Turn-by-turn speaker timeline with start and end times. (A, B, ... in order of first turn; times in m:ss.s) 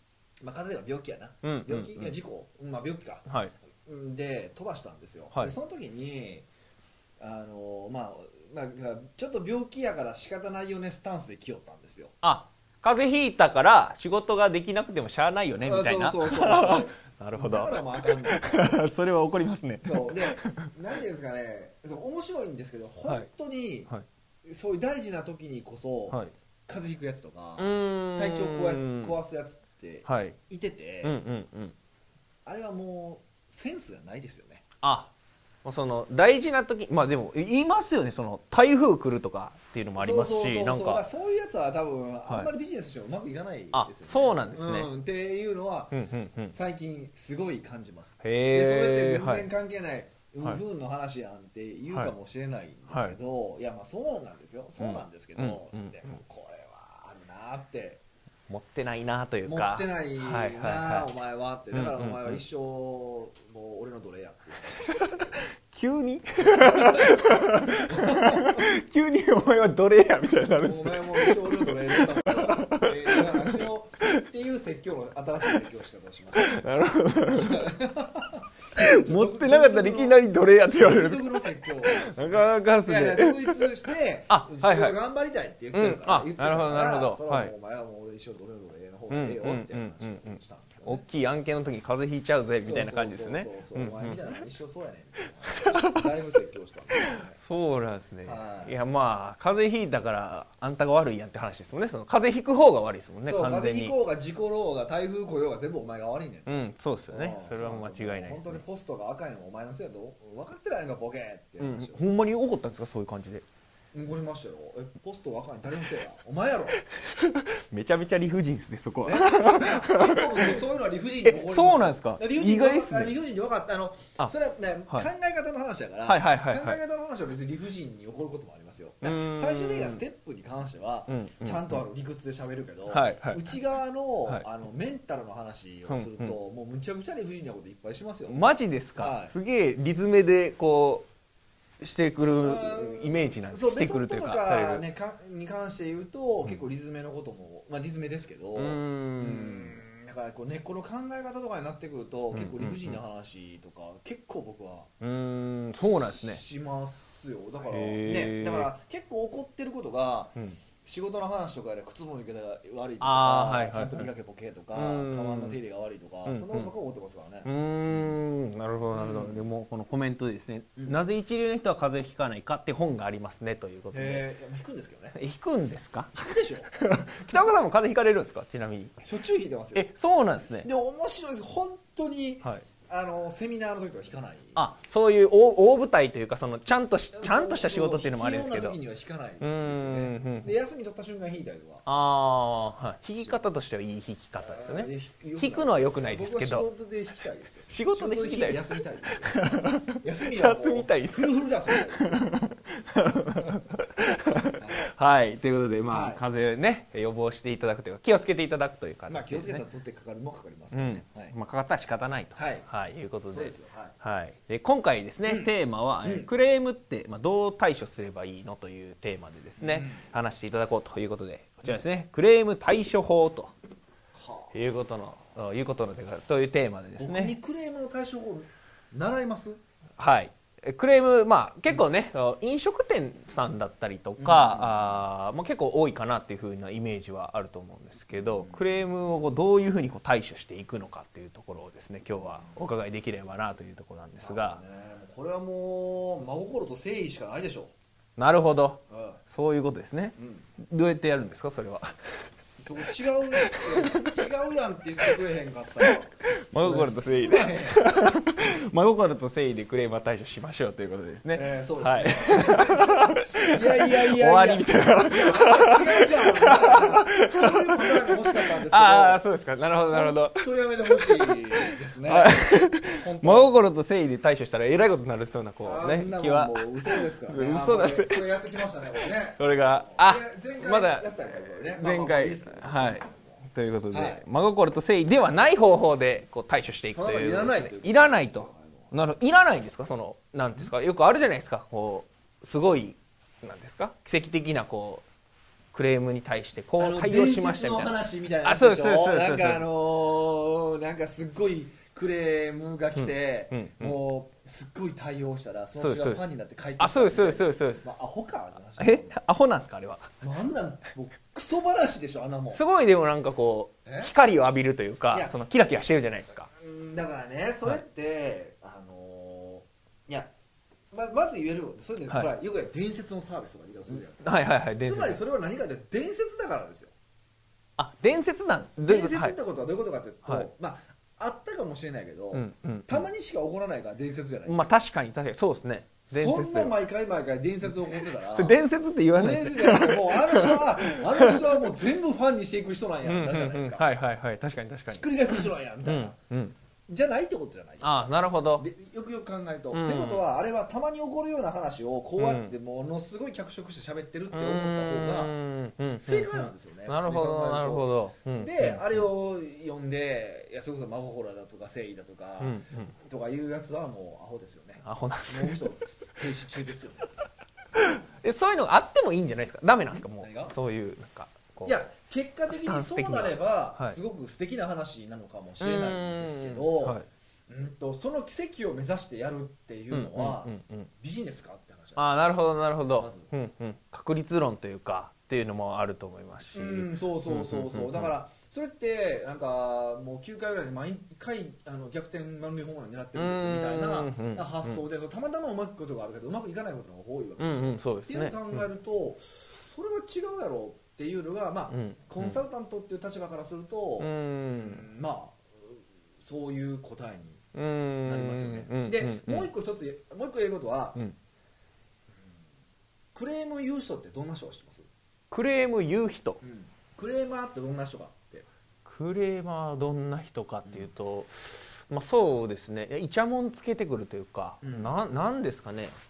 0:00.4-0:03.3 A
0:01.4-0:02.2 B
0:03.3-0:03.5 B
0:03.8-0:06.5 A
0:07.2-0:12.2 A
0:12.2-0:20.7 B
0:15.6-0:18.7 A
0:19.8-0:23.9 A
0:24.5-0:31.2 A
0:27.6-0:29.2 B
0:30.1-0:30.4 B
0:31.0-0:31.8 B
0:32.5-0:34.6 A
0:34.8-0:35.1 B
0:35.6-0:41.0 B
0:40.0-0:58.0 A
0:43.7-0:44.9 B
0:45.9-0:46.5 B
0:48.2-0:49.5 B
0:52.9-0:53.2 B
0:54.8-0:56.1 B
0:58.5-1:01.1 B
0:59.4-1:05.3 A
1:01.7-1:02.4 B
1:04.8-1:14.1 B
1:06.4-1:08.7 A
1:10.6-1:16.6 A
1:16.4-1:17.7 B
1:17.3-1:31.0 A
1:18.8-1:23.7 B
1:24.3-1:25.0 B
1:25.7-1:27.5 B
1:29.1-1:34.4 B
1:32.6-1:37.4 A
1:37.3-1:44.0 B
1:38.2-1:38.8 A
1:43.2-1:52.0 A
1:46.5-1:48.6 B
1:51.6-1:53.4 B
1:53.9-1:56.8 A
1:56.9-2:00.6 B
1:59.0-2:19.4 A
2:01.2-2:03.2 B
2:06.1-2:06.8 B
2:09.0-2:10.0 B
2:11.1-2:11.8 B
2:12.9-2:13.5 B
2:15.9-2:16.4 B
2:18.3-2:21.1 B
2:21.8-2:24.8 B
2:22.4-2:34.9 A
2:28.6-2:29.8 B
2:32.3-2:33.0 B
2:35.0-2:36.4 B
2:35.8-2:48.2 A
2:37.7-2:38.7 B
2:43.0-2:44.1 B
2:44.7-2:45.6 B
2:46.3-2:46.7 B
2:47.4-2:54.2 B
2:48.9-2:49.4 A
2:50.8-2:51.0 A
2:53.9-2:55.2 A
2:55.2-2:59.0 B
2:56.2-2:56.7 A
2:59.0-2:59.9 A
2:59.7-3:00.7 B
3:00.6-3:04.6 A
3:04.6-3:08.8 B
3:07.1-3:11.8 A
3:09.4-3:10.6 B
3:11.9-3:16.7 B
3:14.4-3:22.3 A
3:17.7-3:29.6 B
3:24.6-3:24.8 A
3:25.9-3:26.2 A
3:29.1-3:31.4 A
3:30.7-3:43.5 B
3:32.4-3:32.7 A
3:33.3-3:34.0 A
3:35.3-3:35.5 A
3:36.0-3:36.3 A
3:39.6-3:40.0 A
3:44.2-3:44.6 A
3:44.5-3:47.4 B
3:47.0-3:49.6 A
3:50.0-4:04.6 B
3:54.2-3:55.0 A
3:58.1-3:59.3 A
4:02.2-4:02.6 A
4:04.2-4:07.7 A
4:08.2-4:12.3 B
4:08.9-4:09.2 A
4:10.2-4:10.5 A
4:12.6-4:17.8 A
4:13.4-4:14.2 B
4:15.9-4:31.4 B
4:21.3-4:29.2 A
4:29.9-4:33.5 A
4:32.0-4:38.4 B
4:35.6-4:43.4 A
4:39.4-4:55.0 B
4:43.9-4:44.2 A
4:46.9-4:49.0 A
4:55.7-4:59.7 B
4:56.8-5:09.2 A
5:03.0-5:04.0 B
5:05.8-5:06.2 B
5:06.8-5:07.8 B
5:08.8-5:10.2 B
5:10.2-5:12.6 A
5:12.5-5:16.5 B
5:13.8-5:14.1 A
5:16.5-5:20.3 A
5:20.9-5:26.9 A
5:24.2-5:25.2 B
5:27.8-5:29.4 B
5:28.8-5:34.7 A
5:32.3-5:33.1 B
5:34.5-5:36.8 B
5:36.1-5:38.6 A
5:37.7-5:41.6 B
5:39.2-5:43.9 A
5:43.0-5:46.6 B
5:44.9-5:46.2 A
5:46.9-5:55.3 A
5:47.8-5:48.7 B
5:49.7-5:50.2 B
5:52.2-5:52.5 B
5:54.3-5:59.0 B
5:56.0-6:07.2 A
6:02.4-6:02.9 B
6:04.8-6:05.6 B
6:07.8-6:11.8 B
6:10.2-6:10.6 A
6:11.6-6:22.2 A
6:12.5-6:14.0 B
6:15.6-6:17.1 B
6:19.9-6:20.9 B
6:22.0-6:28.1 B
6:22.9-6:23.3 A
6:26.5-6:47.4 A
6:33.2-6:34.8 B
6:37.4-6:38.6 B
6:41.7-6:42.4 B
6:44.0-6:44.8 B
6:47.5-6:49.5 B
6:48.0-6:51.0 A
6:53.2-6:54.9 A
6:55.3-6:56.4 B
6:56.4-6:58.5 A
6:58.8-7:05.9 B
7:04.6-7:05.0 A